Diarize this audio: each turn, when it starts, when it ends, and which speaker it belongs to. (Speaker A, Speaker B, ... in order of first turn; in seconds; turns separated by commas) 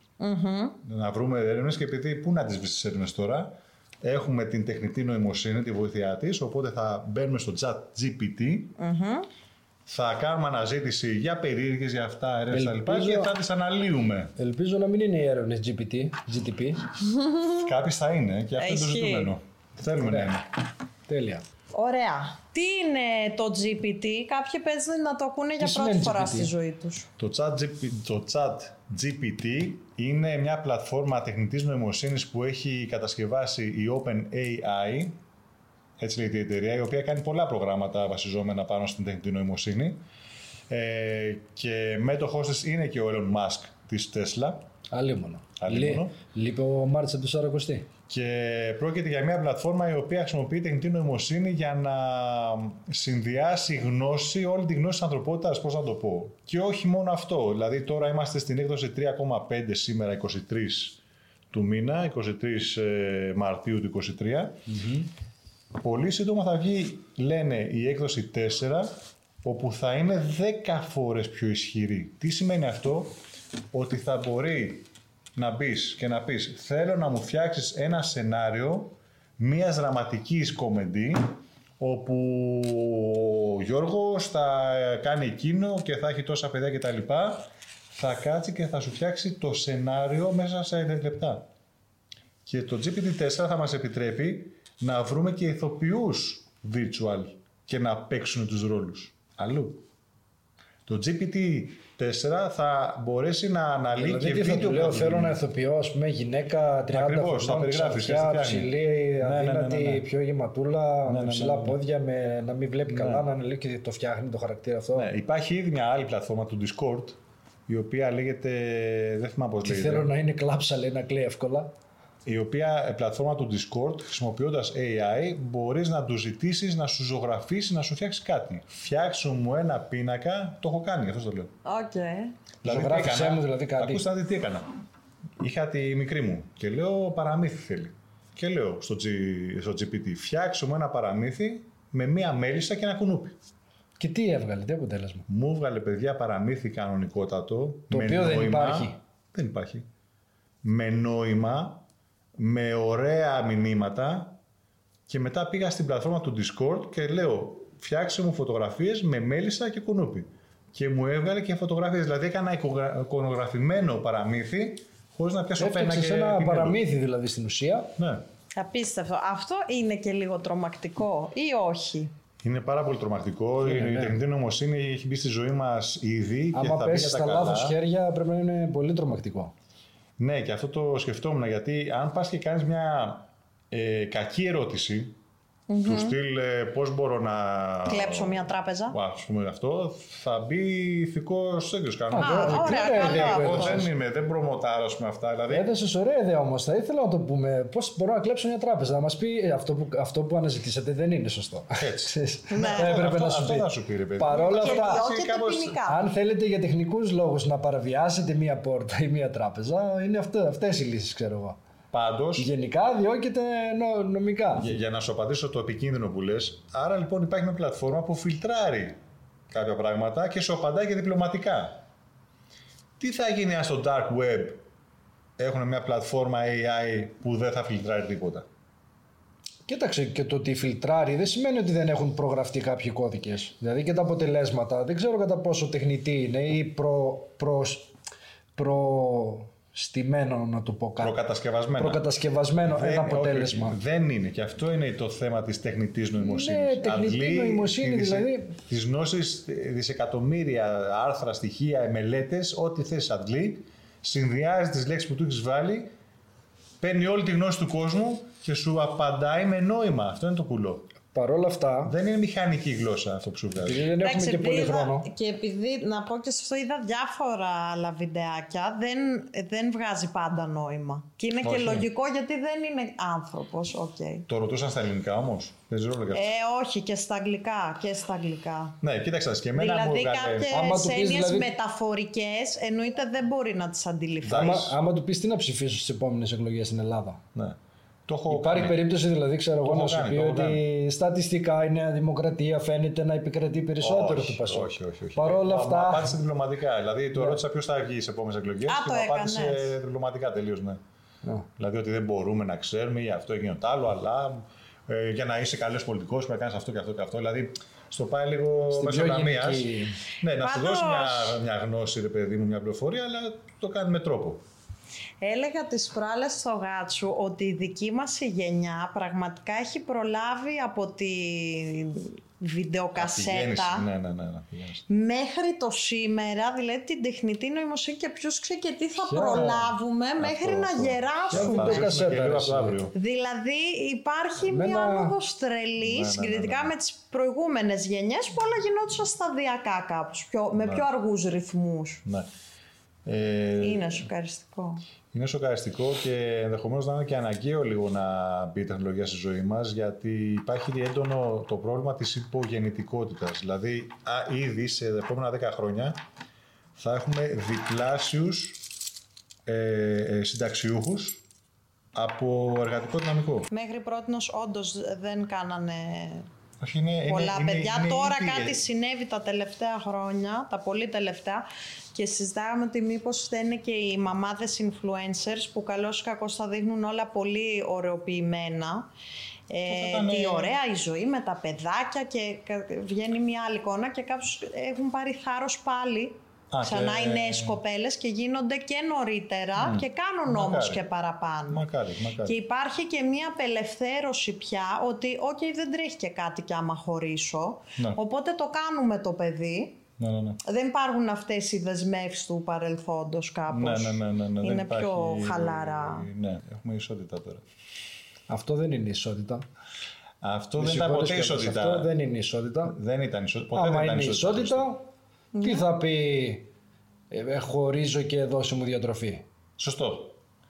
Speaker A: 0.2-0.8, Speaker B: 0.8-8.8, Speaker A: 8.8-9.3, Speaker B: 9.9-14.3, Speaker C: 12.5-13.3, Speaker C: 14.4-16.8, Speaker A: 17.0-17.7, Speaker B: 17.6-20.5, Speaker A: 18.6-19.4, Speaker C: 20.0-20.4, Speaker C: 21.1-21.4, Speaker A: 21.7-27.1, Speaker C: 25.6-26.5, Speaker B: 27.2-35.2, Speaker B: 36.0-40.0, Speaker B: 40.7-44.7, Speaker C: 44.9-47.9, Speaker B: 45.6-46.1, Speaker B: 48.1-61.0, Speaker B: 61.5-64.8, Speaker C: 64.7-65.0, Speaker B: 65.8-68.9, Speaker B: 69.4-73.1, Speaker B: 73.7-91.5, Speaker B: 92.5-99.8, Speaker B: 100.9-105.4, Speaker C: 104.0-115.1, Speaker B: 106.9-110.1, Speaker B: 111.1-111.8, Speaker B: 112.9-113.3, Speaker B: 115.0-120.1, Speaker C: 119.6-121.7, Speaker B: 122.2-131.5, Speaker A: 131.7-132.3, Speaker B: 132.6-134.7, Speaker C: 132.6-134.0, Speaker B: 135.4-143.4, Speaker C: 144.0-145.2, Speaker B: 145.3-149.8, Speaker C: 147.9-149.0, Speaker B: 150.6-151.8, Speaker B: 152.4-154.4, Speaker B: 155.1-166.8, Speaker C: 165.6-167.9, Speaker B: 168.0-168.2, Speaker A: 168.6-172.1, Speaker B: 172.4-177.8, Speaker C: 173.6-174.2, Speaker C: 176.5-179.5, Speaker B: 180.2-185.2, Speaker A: 185.7-186.2, Speaker B: 185.8-195.7, Speaker A: 187.9-189.0, Speaker C: 192.1-193.9, Speaker A: 192.2-193.9, Speaker C: 195.5-205.1, Speaker B: 201.8-205.8, Speaker A: 202.5-203.0, Speaker A: 204.3-206.0, Speaker C: 205.8-211.6, Speaker B: 211.9-212.5, Speaker C: 212.4-214.7, Speaker B: 214.6-219.0, Speaker B: 219.5-221.8, Speaker B: 223.0-224.6, Speaker B: 225.4-228.5, Speaker C: 229.7-237.9, Speaker C: 238.6-241.2, Speaker B: 241.0-242.0, Speaker C: 241.8-243.8, Speaker B: 242.7-255.9, Speaker C: 246.2-248.6, Speaker B: 256.8-260.9, Speaker C: 261.1-261.9, Speaker B: 261.9-263.9, Speaker C: 263.6-265.1, Speaker A: 264.0-274.3, Speaker B: 271.4-271.9, Speaker B: 274.3-276.3, Speaker A: 276.1-278.8, Speaker B: 278.8-280.6, Speaker A: 279.6-284.6, Speaker C: 280.5-281.5, Speaker B: 284.2-284.8, Speaker C: 284.3-287.2, Speaker B: 287.4-288.9, Speaker C: 288.3-296.2, Speaker B: 289.6-290.6, Speaker B: 293.8-300.8, Speaker A: 298.7-299.7, Speaker B: 301.6-309.7, Speaker C: 308.7-310.0, Speaker B: 310.2-314.4, Speaker A: 310.4-311.4, Speaker A: 315.2-323.9, Speaker B: 323.0-324.9, Speaker A: 324.9-332.0, Speaker C: 329.0-329.6, Speaker B: 329.3-332.9, Speaker C: 331.3-332.9, Speaker A: 332.9-342.0, Speaker C: 334.4-335.2, Speaker B: 335.8-336.7, Speaker B: 340.6-340.9, Speaker B: 343.1-344.1, Speaker A: 343.6-344.8, Speaker B: 345.1-356.0, Speaker B: 356.8-358.6, Speaker B: 359.5-361.2, Speaker B: 361.9-363.5, Speaker A: 363.5-366.3, Speaker B: 366.6-368.6, Speaker A: 367.1-378.9, Speaker A: 379.5-391.6, Speaker B: 379.7-380.6, Speaker B: 386.5-387.6, Speaker B: 389.6-390.9, Speaker B: 391.5-392.4, Speaker A: 392.2-399.8, Speaker B: 400.0-400.4, Speaker A: 400.4-406.1, Speaker B: 403.5-407.4, Speaker C: 408.3-409.4, Speaker B: 410.2-411.9, Speaker C: 410.6-412.8, Speaker B: 412.6-414.7, Speaker C: 413.5-414.8, Speaker A: 415.3-415.7, Speaker C: 415.4-416.5, Speaker C: 417.1-419.2, Speaker B: 419.6-420.2